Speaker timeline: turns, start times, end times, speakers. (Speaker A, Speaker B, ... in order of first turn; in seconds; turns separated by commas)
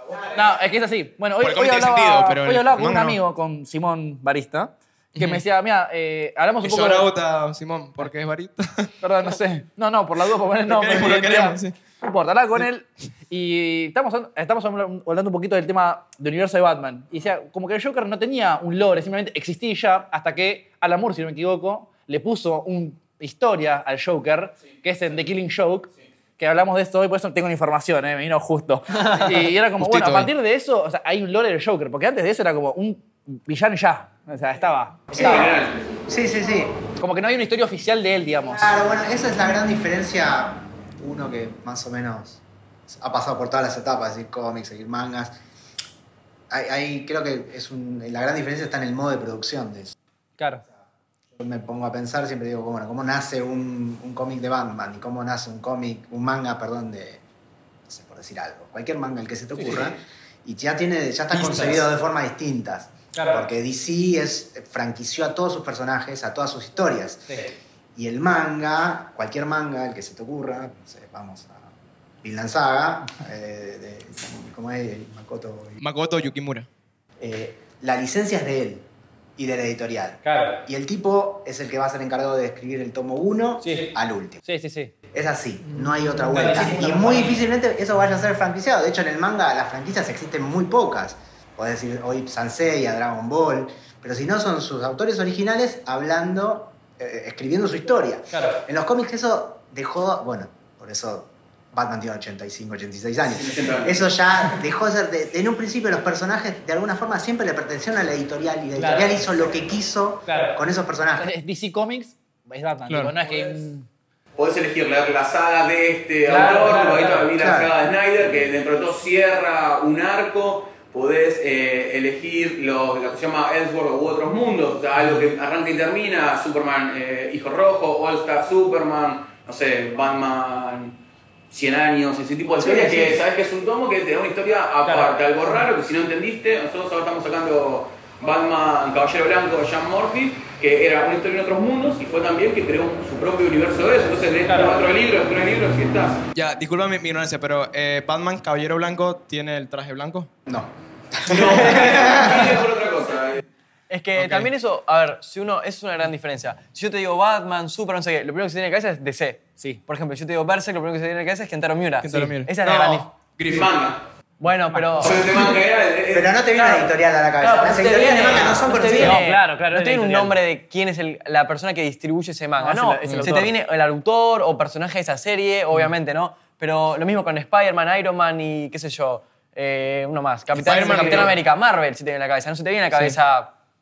Speaker A: 0.3-7.1, Speaker B: 1.4-3.2, Speaker B: 5.1-5.4, Speaker B: 6.6-8.9, Speaker A: 9.0-35.5, Speaker B: 10.7-11.8, Speaker B: 29.8-30.3, Speaker C: 35.1-35.9, Speaker D: 35.1-35.5, Speaker D: 36.1-36.7, Speaker A: 37.0-38.6, Speaker D: 38.5-45.4, Speaker D: 46.5-49.9, Speaker A: 50.4-50.6, Speaker D: 51.4-57.2, Speaker D: 57.9-75.8, Speaker A: 59.6-59.9, Speaker B: 61.3-61.9, Speaker A: 63.1-63.4, Speaker B: 75.8-76.7, Speaker D: 77.2-78.8, Speaker D: 79.4-84.4, Speaker A: 80.2-80.6, Speaker A: 83.6-83.9, Speaker A: 84.4-84.9, Speaker D: 85.1-111.3, Speaker A: 86.2-87.4, Speaker A: 98.3-98.6, Speaker C: 103.3-104.0, Speaker A: 108.8-109.2, Speaker A: 110.3-110.5, Speaker A: 111.2-113.8, Speaker B: 112.9-113.1, Speaker C: 114.4-131.0, Speaker A: 116.2-117.3, Speaker D: 117.3-117.7, Speaker C: 131.5-146.2, Speaker A: 132.6-133.2, Speaker A: 134.8-135.6, Speaker A: 144.4-144.7, Speaker B: 146.3-150.3, Speaker D: 150.5-152.7, Speaker C: 151.2-153.4, Speaker E: 153.9-163.1, Speaker B: 154.2-154.5, Speaker B: 162.0-163.7, Speaker C: 163.5-164.0, Speaker E: 164.4-165.2, Speaker A: 164.7-165.1, Speaker C: 165.0-166.9, Speaker D: 166.1-169.2, Speaker C: 167.4-168.6, Speaker E: 167.4-183.5, Speaker A: 168.9-170.3, Speaker A: 172.6-173.5, Speaker B: 173.0-173.3, Speaker B: 180.5-181.3, Speaker A: 180.8-181.2